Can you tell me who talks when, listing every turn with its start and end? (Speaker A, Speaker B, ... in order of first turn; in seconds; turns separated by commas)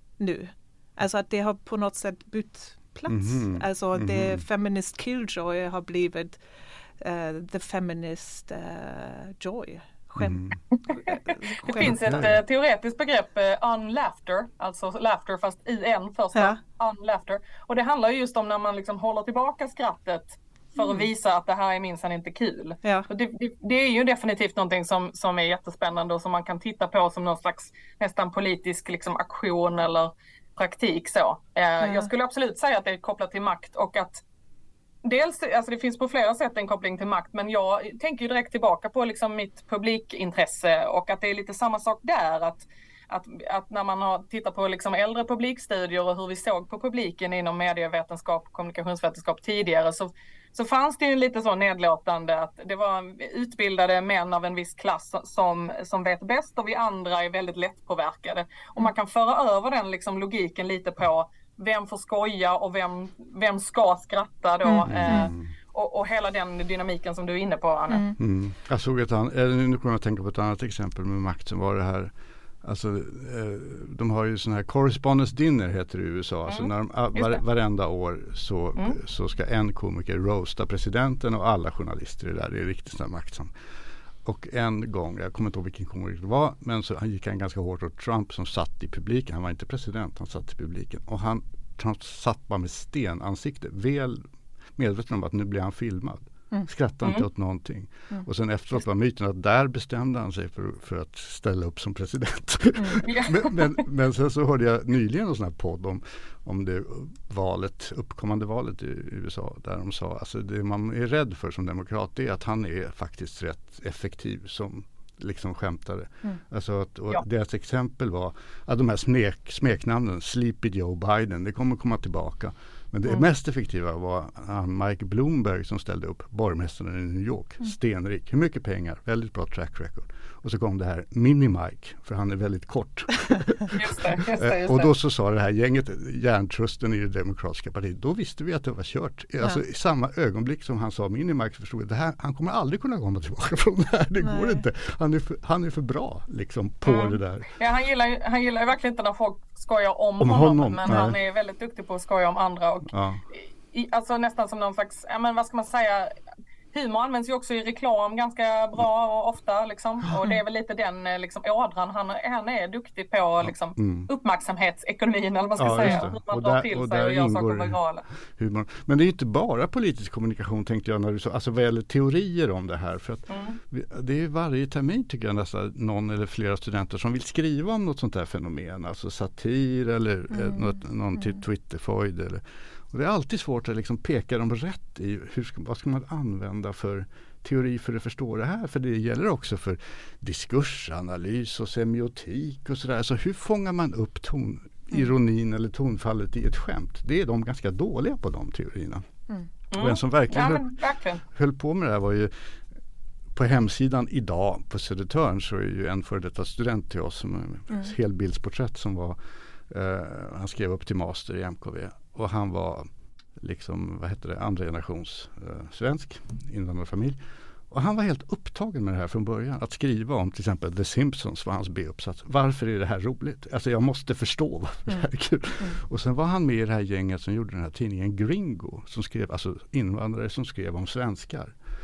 Speaker A: 0.2-6.4, Speaker B: 3.1-4.4, Speaker A: 7.0-12.2, Speaker B: 10.2-10.6, Speaker C: 10.9-34.2, Speaker B: 11.8-12.4, Speaker A: 20.8-21.1, Speaker A: 31.8-32.1, Speaker C: 35.0-68.1, Speaker A: 64.7-65.3, Speaker B: 64.9-65.5, Speaker A: 67.9-68.2, Speaker B: 68.2-83.5, Speaker C: 76.5-77.4, Speaker B: 84.2-94.2, Speaker B: 94.8-147.5, Speaker A: 102.8-103.0, Speaker C: 103.0-103.7, Speaker C: 133.7-134.9, Speaker A: 144.2-144.6, Speaker C: 146.8-156.1, Speaker B: 150.2-151.2, Speaker B: 152.9-153.2, Speaker C: 156.7-168.1, Speaker B: 163.4-164.1, Speaker B: 165.6-199.1, Speaker C: 173.3-173.6, Speaker A: 180.3-181.4, Speaker C: 199.7-201.2, Speaker B: 199.8-200.7, Speaker B: 201.3-202.3, Speaker B: 203.3-209.2, Speaker B: 209.7-217.2, Speaker B: 217.7-231.6